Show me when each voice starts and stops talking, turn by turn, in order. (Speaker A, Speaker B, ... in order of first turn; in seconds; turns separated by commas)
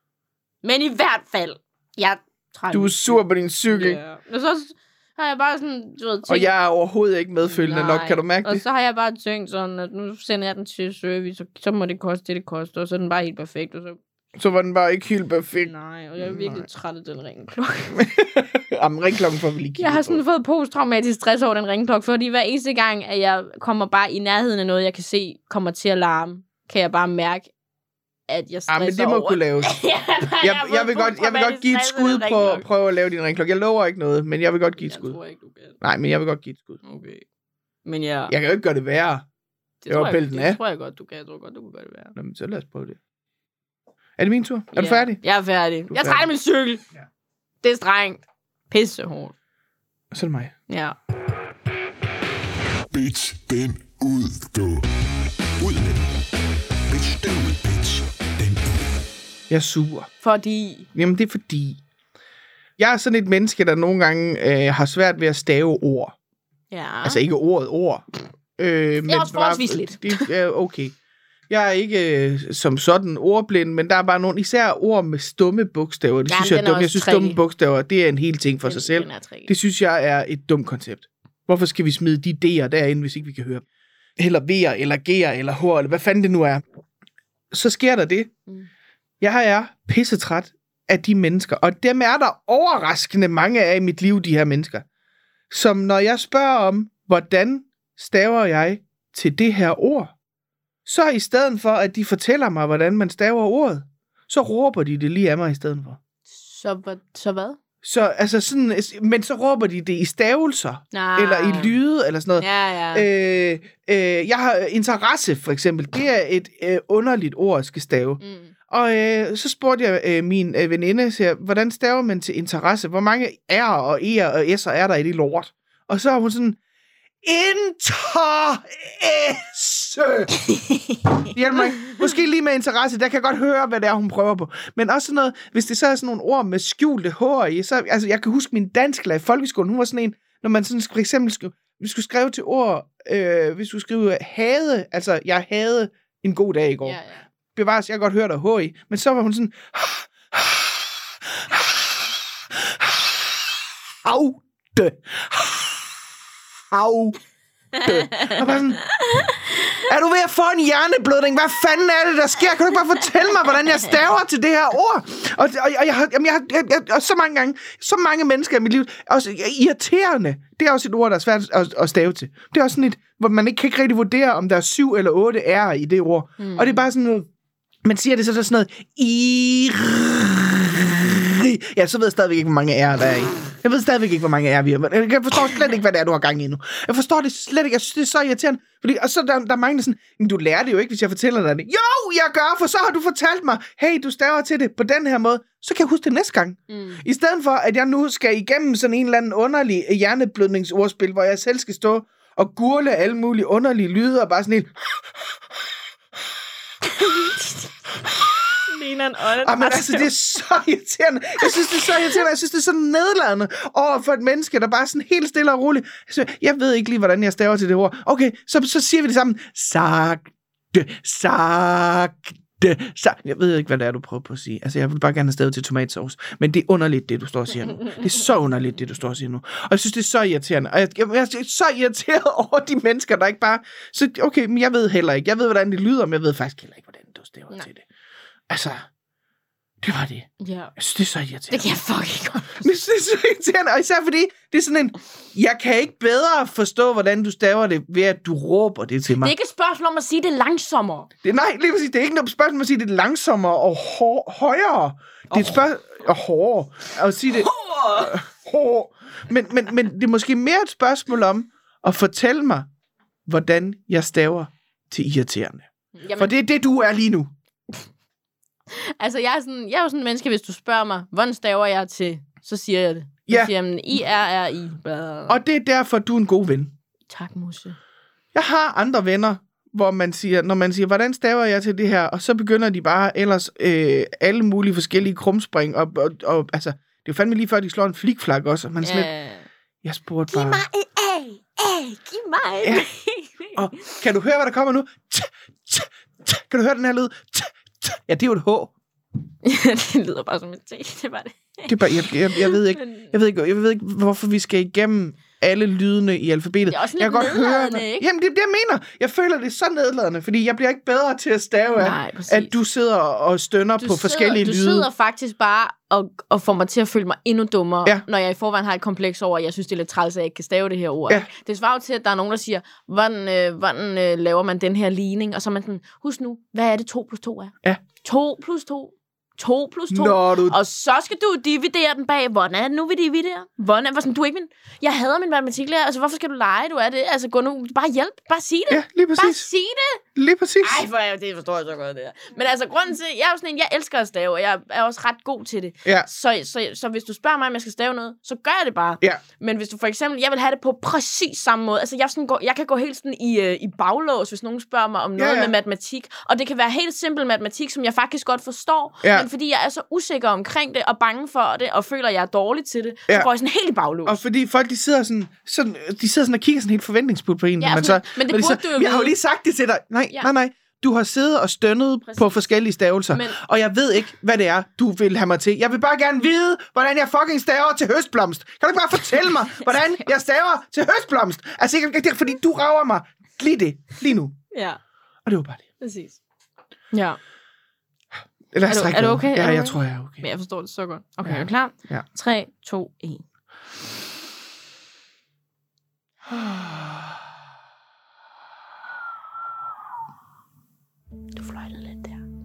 Speaker A: 0.6-6.5, Speaker B: 2.7-4.0, Speaker B: 6.2-8.6, Speaker A: 7.5-14.0, Speaker B: 14.3-16.6, Speaker A: 15.6-18.1, Speaker B: 17.9-20.2, Speaker A: 19.8-27.5, Speaker A: 28.3-32.6, Speaker B: 28.7-35.2, Speaker A: 34.8-35.8, Speaker B: 35.8-36.8, Speaker A: 36.8-37.2, Speaker A: 37.8-38.3, Speaker B: 38.3-39.2, Speaker A: 39.8-42.1, Speaker B: 39.9-40.6, Speaker B: 42.1-43.0, Speaker B: 44.2-45.2, Speaker A: 44.7-46.8, Speaker B: 45.9-46.3, Speaker A: 47.6-49.3, Speaker B: 50.1-50.5, Speaker A: 50.7-51.0, Speaker C: 52.9-54.9, Speaker C: 55.6-56.2, Speaker C: 56.9-58.9, Speaker B: 59.5-60.1, Speaker A: 60.2-60.9, Speaker B: 60.9-61.8, Speaker B: 62.8-66.1, Speaker A: 66.7-67.2, Speaker B: 67.0-68.0, Speaker B: 68.6-71.0, Speaker A: 69.1-70.3, Speaker B: 71.5-83.6, Speaker A: 76.3-77.4, Speaker A: 78.6-79.5, Speaker B: 84.2-86.6, Speaker B: 87.5-88.3, Speaker B: 89.2-94.8, Speaker B: 95.5-100.1, Speaker B: 100.8-106.0, Speaker A: 106.3-107.6, Speaker B: 107.8-126.6, Speaker A: 110.9-111.8, Speaker A: 112.4-113.1, Speaker A: 118.2-118.5, Speaker B: 127.2-130.3, Speaker A: 130.5-131.0, Speaker B: 131.3-147.0, Speaker A: 146.8-147.2, Speaker B: 147.5-156.1, Speaker B: 156.7-157.2, Speaker A: 157.8-159.8, Speaker B: 157.8-158.9, Speaker B: 159.8-177.3, Speaker A: 176.4-176.8, Speaker B: 177.8-205.3, Speaker A: 196.7-197.0, Speaker A: 206.9-207.9, Speaker B: 208.1-208.6, Speaker A: 208.6-210.1, Speaker B: 209.4-237.8, Speaker A: 211.4-212.2, Speaker B: 238.5-238.8, Speaker B: 239.8-241.7, Speaker A: 240.4-240.7, Speaker A: 241.5-242.6, Speaker B: 242.5-249.3, Speaker A: 249.2-251.1, Speaker B: 251.2-262.7, Speaker A: 257.5-257.9, Speaker B: 263.2-267.3, Speaker A: 265.9-266.3, Speaker A: 268.7-275.4, Speaker B: 275.3-276.7, Speaker A: 277.1-277.8, Speaker B: 278.3-289.1, Speaker A: 288.8-289.5, Speaker B: 289.8-290.6, Speaker A: 290.3-294.0, Speaker B: 293.5-298.7, Speaker A: 299.4-303.1, Speaker B: 301.7-314.9, Speaker A: 306.6-308.1, Speaker A: 311.8-312.5, Speaker A: 313.8-340.0, Speaker B: 329.9-330.6, Speaker B: 338.7-339.5, Speaker B: 340.1-340.9, Speaker A: 340.6-364.2, Speaker B: 355.2-355.5, Speaker B: 359.0-359.3, Speaker B: 364.1-384.4, Speaker A: 367.6-369.1, Speaker A: 372.1-372.3, Speaker A: 373.1-373.4, Speaker A: 379.6-379.9, Speaker A: 384.5-384.8, Speaker B: 385.2-385.7, Speaker A: 385.8-386.2, Speaker A: 386.9-387.2, Speaker B: 388.5-390.2, Speaker A: 388.7-393.2, Speaker B: 391.2-392.1, Speaker B: 396.2-397.2, Speaker A: 401.4-402.2